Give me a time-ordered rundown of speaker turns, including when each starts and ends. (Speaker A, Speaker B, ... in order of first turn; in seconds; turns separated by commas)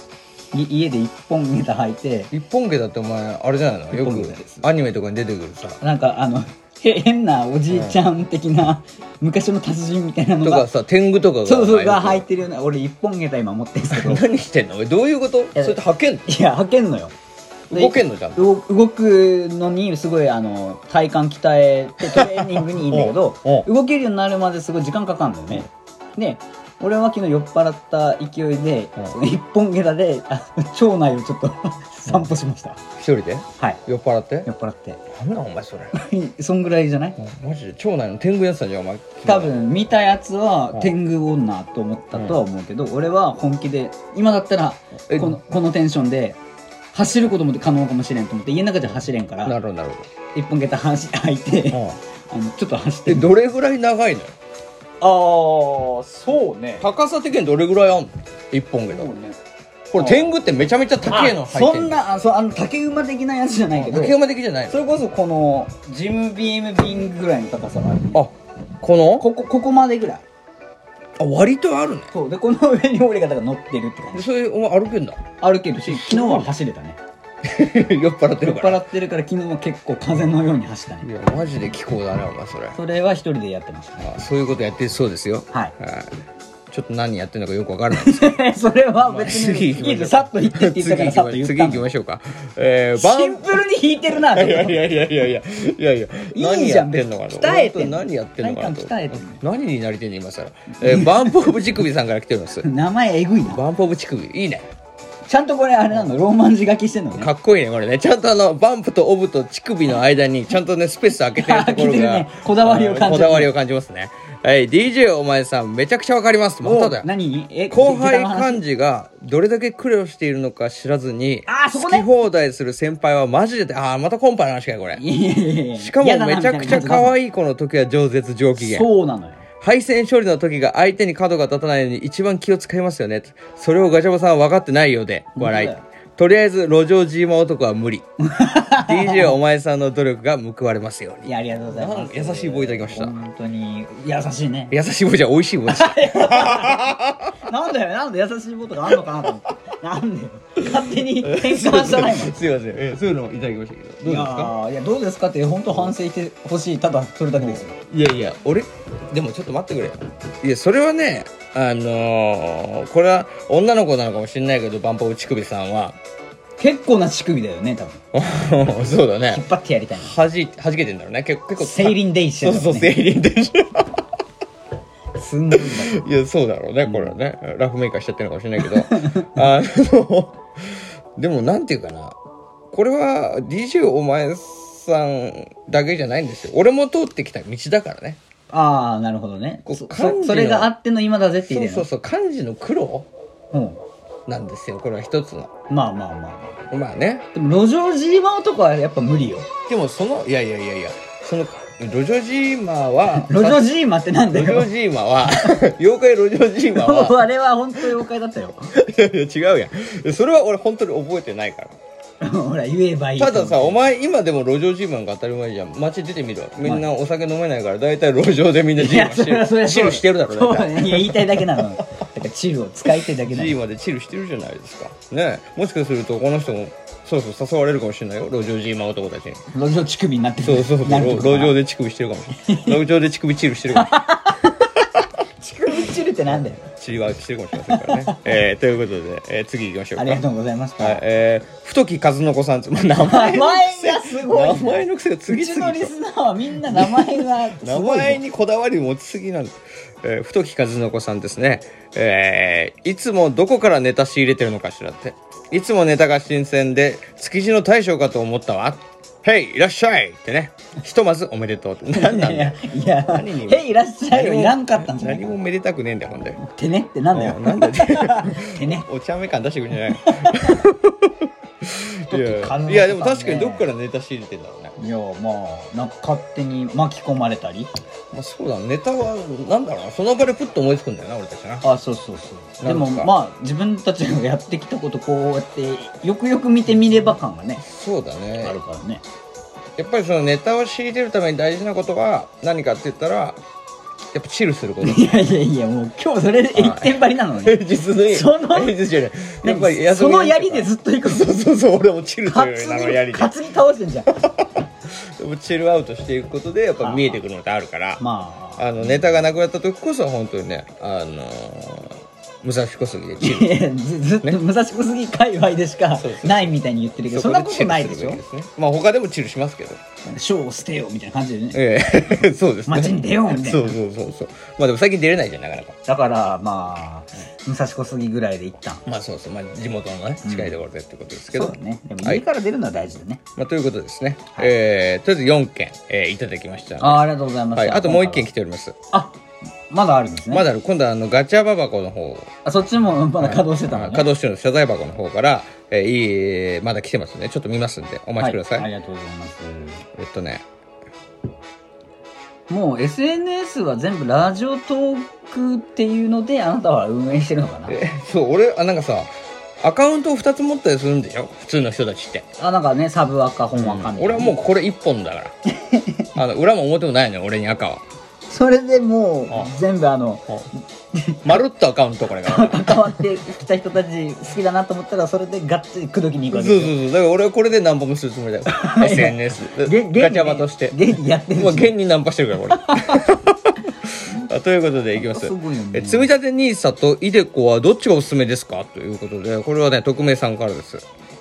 Speaker A: 0.5-2.3, Speaker B: 2.3-5.8, Speaker A: 3.9-4.7, Speaker A: 5.8-10.7, Speaker B: 7.7-8.0, Speaker B: 10.4-12.2, Speaker A: 11.4-14.2, Speaker B: 13.9-16.3, Speaker A: 15.6-17.1, Speaker B: 17.7-18.4, Speaker A: 17.7-32.8, Speaker B: 22.1-23.7, Speaker B: 33.0-34.5, Speaker A: 34.4-35.0, Speaker B: 35.1-35.9, Speaker A: 35.9-37.1, Speaker B: 37.2-39.6, Speaker A: 39.2-46.4, Speaker B: 45.1-45.4, Speaker A: 46.9-49.5, Speaker B: 49.4-50.1, Speaker A: 50.3-53.3, Speaker B: 51.7-52.0, Speaker B: 53.0-54.3, Speaker A: 55.0-56.9, Speaker B: 56.8-59.1, Speaker A: 58.9-59.4, Speaker B: 59.9-62.0, Speaker A: 60.0-60.3, Speaker A: 61.0-64.2, Speaker B: 63.7-64.8, Speaker A: 64.7-68.2, Speaker B: 68.1-69.3, Speaker A: 69.2-70.2, Speaker B: 71.2-72.1, Speaker A: 72.1-74.3, Speaker B: 74.1-75.2, Speaker A: 75.4-77.0, Speaker B: 75.8-76.5, Speaker B: 77.4-78.8, Speaker A: 78.4-81.1, Speaker B: 81.0-82.8, Speaker A: 82.7-84.1, Speaker B: 84.0-88.4, Speaker A: 87.9-91.9, Speaker B: 89.0-93.6, Speaker A: 93.0-94.9, Speaker B: 94.1-102.7, Speaker A: 96.3-99.4, Speaker A: 100.8-101.5, Speaker A: 102.6-103.6, Speaker B: 103.5-104.7, Speaker A: 105.3-107.3, Speaker B: 107.2-117.1, Speaker A: 111.3-113.5, Speaker A: 116.6-118.6, Speaker B: 117.7-125.0, Speaker A: 121.5-122.1, Speaker A: 124.9-127.2, Speaker B: 125.8-128.8, Speaker A: 128.6-129.4, Speaker B: 129.6-138.1, Speaker A: 135.3-135.8, Speaker A: 138.2-139.3, Speaker B: 138.8-143.2, Speaker A: 141.2-144.7, Speaker B: 144.7-147.3, Speaker A: 145.7-152.4, Speaker B: 148.9-149.2, Speaker B: 150.6-154.5, Speaker A: 154.0-157.8, Speaker B: 157.3-166.0, Speaker A: 166.6-168.0, Speaker B: 168.1-169.4, Speaker A: 169.3-170.1, Speaker B: 170.0-174.0, Speaker A: 171.6-172.9, Speaker A: 175.1-176.0, Speaker B: 175.5-182.2, Speaker A: 178.6-179.3, Speaker B: 182.7-188.2, Speaker A: 188.5-191.9, Speaker B: 189.7-190.7, Speaker B: 191.4-193.1, Speaker A: 193.5-193.8, Speaker B: 194.3-195.5, Speaker A: 195.7-196.6, Speaker B: 196.7-197.2, Speaker A: 197.3-199.5, Speaker B: 199.7-203.7, Speaker A: 203.1-204.7, Speaker B: 204.3-207.3, Speaker A: 205.3-205.6, Speaker A: 206.7-208.7, Speaker B: 208.7-211.8, Speaker A: 212.2-213.8, Speaker B: 213.2-221.9, Speaker A: 218.8-223.6, Speaker B: 223.1-229.4, Speaker A: 229.5-231.5, Speaker B: 230.4-235.1, Speaker A: 232.4-232.8, Speaker A: 233.7-234.5, Speaker A: 235.4-236.6, Speaker B: 236.6-240.2, Speaker A: 237.6-238.2, Speaker A: 239.9-241.0, Speaker B: 240.8-245.9, Speaker A: 243.0-248.2, Speaker B: 246.6-266.4, Speaker A: 261.9-265.4, Speaker A: 266.4-268.8, Speaker B: 267.1-274.8, Speaker A: 269.9-270.6, Speaker A: 272.1-273.7, Speaker A: 274.8-277.7, Speaker B: 278.1-281.6, Speaker A: 281.6-287.6, Speaker B: 282.6-283.1, Speaker B: 287.6-288.6, Speaker A: 288.4-289.0, Speaker B: 289.8-293.4, Speaker B: 294.1-295.2, Speaker A: 294.8-298.8, Speaker B: 296.5-303.3, Speaker A: 299.4-301.5, Speaker A: 302.2-304.1, Speaker B: 304.1-308.0, Speaker A: 306.8-307.2, Speaker A: 308.0-309.2, Speaker B: 308.6-313.6, Speaker A: 313.2-318.2, Speaker B: 315.9-316.5, Speaker B: 317.1-319.8, Speaker A: 320.1-321.6, Speaker B: 321.5-325.8, Speaker A: 322.7-323.8, Speaker A: 325.9-328.8, Speaker B: 328.9-332.2, Speaker A: 330.2-330.6, Speaker A: 331.3-333.2, Speaker B: 333.4-338.7, Speaker A: 336.8-338.3, Speaker A: 338.9-339.2, Speaker A: 339.7-340.5, Speaker B: 340.3-342.3, Speaker A: 342.4-344.1, Speaker B: 343.2-348.7, Speaker A: 348.2-349.8, Speaker B: 349.9-350.4, Speaker A: 352.5-357.8, Speaker B: 357.7-362.2, Speaker A: 362.4-364.3, Speaker B: 363.5-365.3, Speaker A: 365.5-366.1, Speaker B: 366.1-367.8, Speaker A: 368.3-371.4, Speaker B: 371.2-373.1, Speaker A: 372.2-376.8, Speaker B: 376.3-390.8, Speaker A: 378.5-381.7, Speaker A: 382.5-383.1, Speaker A: 384.9-386.1